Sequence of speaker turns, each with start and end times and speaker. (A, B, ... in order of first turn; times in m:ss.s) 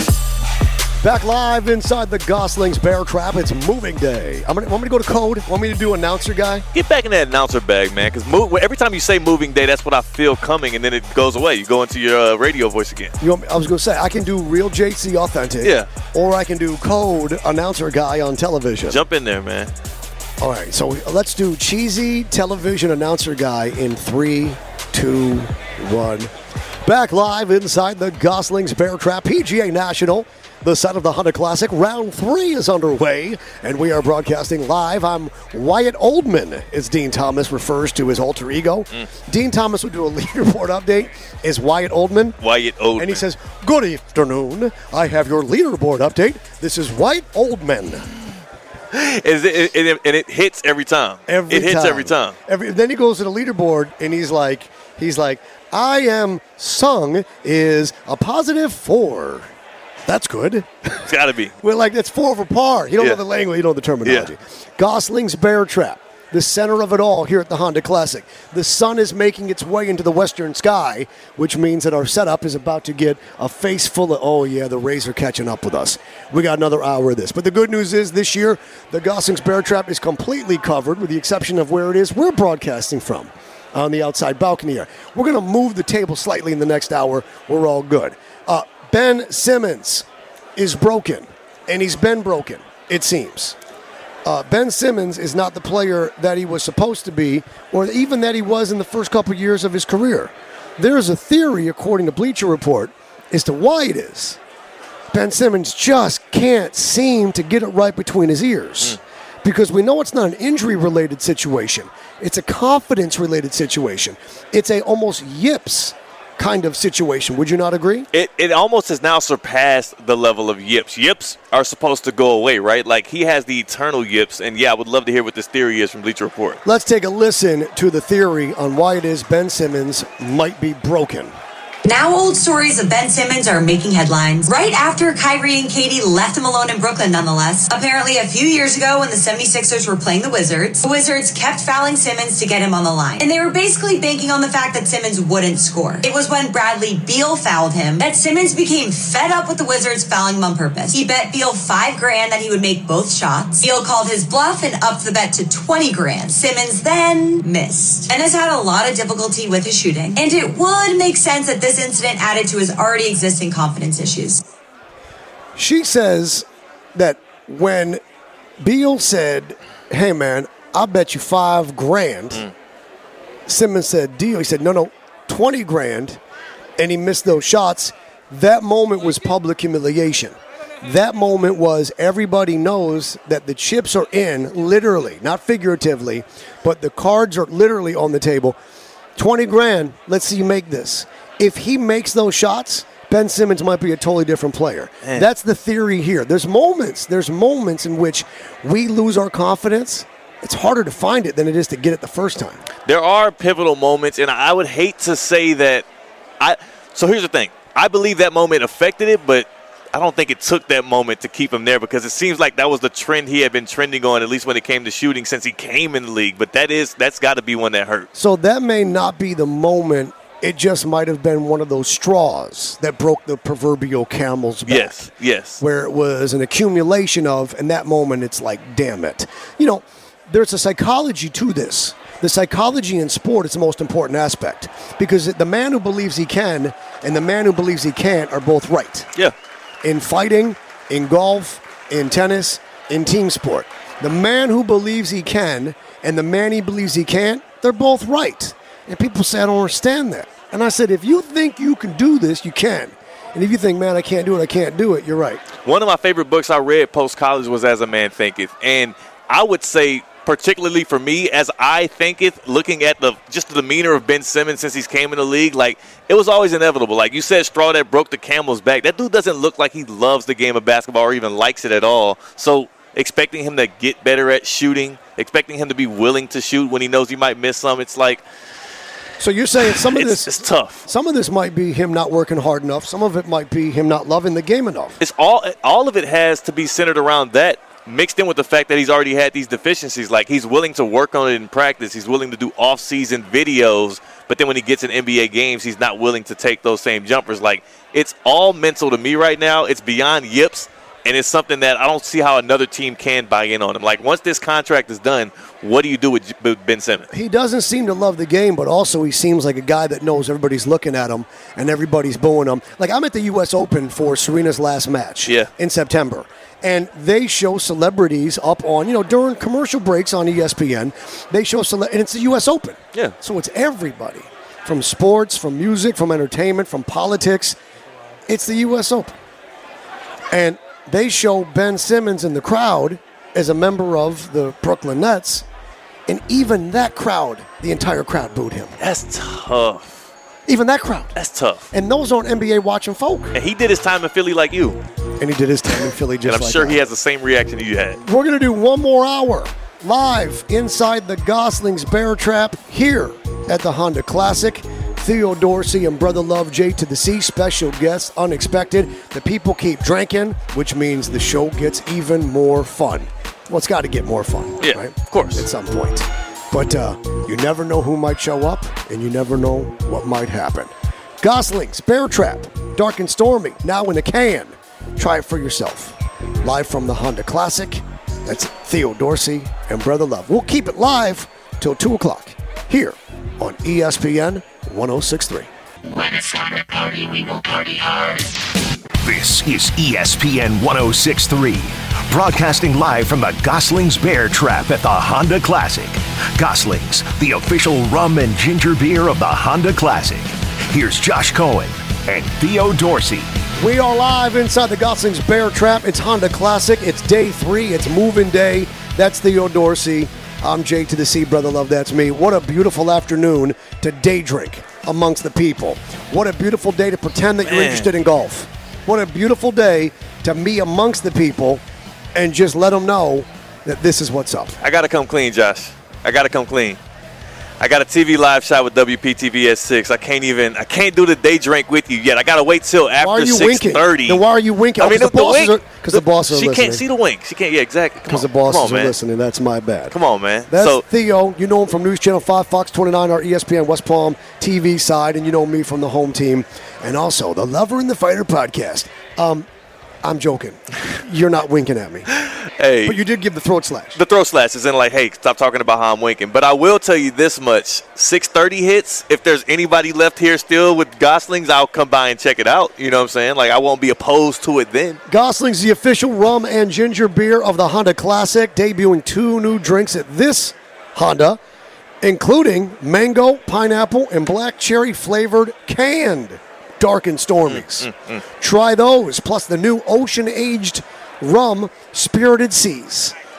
0:01.0-0:06.7 A
0:06.7-0:13.2 B
0:13.2-0:19.0 A
0:15.6-0:15.9 B
0:18.9-0:19.7 B
0:20.4-0:26.3 A
0:26.8-0:42.4 A
0:42.4-0:43.2 B
0:43.0-0:48.1 A
0:48.9-0:52.4 B
0:51.3-0:59.5 A
1:00.1-1:01.1 A
1:01.0-1:01.6 B
1:01.6-1:33.6 A
1:04.0-1:04.3 B
1:34.2-1:44.4 A
1:45.1-1:58.1 A
1:58.1-2:06.6 B
2:06.6-2:11.3 A
2:11.8-2:44.4 C
2:45.6-2:48.0 A
2:48.6-2:52.5 A
2:53.5-2:56.2 A
2:56.8-3:08.6 A
3:09.2-3:22.7 A
3:22.9-3:25.9 B
3:26.4-3:38.1 B
3:38.2-3:45.1 A
3:44.7-3:45.6 B
3:45.6-3:59.1 A
3:59.8-4:15.4 A
4:15.6-4:38.2 B
4:39.2-4:45.0 A
4:39.7-4:40.9 B
4:45.0-5:07.1 B
5:07.1-5:27.6 A
5:28.3-5:29.1 A
5:30.3-5:35.4 A
5:36.1-5:38.8 A
5:38.8-5:40.0 B
5:40.5-5:41.2 A
5:41.2-5:41.7 B
5:41.7-5:43.4 A
5:43.3-5:44.8 B
5:45.2-5:46.8 A
5:46.2-5:48.0 B
5:48.0-6:25.5 A
6:04.6-6:05.5 B
6:25.9-6:28.5 D
6:29.0-6:43.3 E
6:43.6-7:01.6 A
6:57.4-6:57.9 B
7:02.1-7:04.6 A
7:04.6-7:06.8 B
7:07.6-7:14.2 B
7:13.0-7:16.8 A
7:14.8-7:19.0 B
7:18.1-7:20.0 A
7:19.9-7:20.8 B
7:20.5-7:29.5 A
7:30.0-7:32.1 A
7:32.2-7:33.0 B
7:32.8-7:34.0 A
7:34.0-7:45.0 B
7:45.1-7:51.4 A
7:52.0-8:03.2 A
7:57.5-7:58.2 B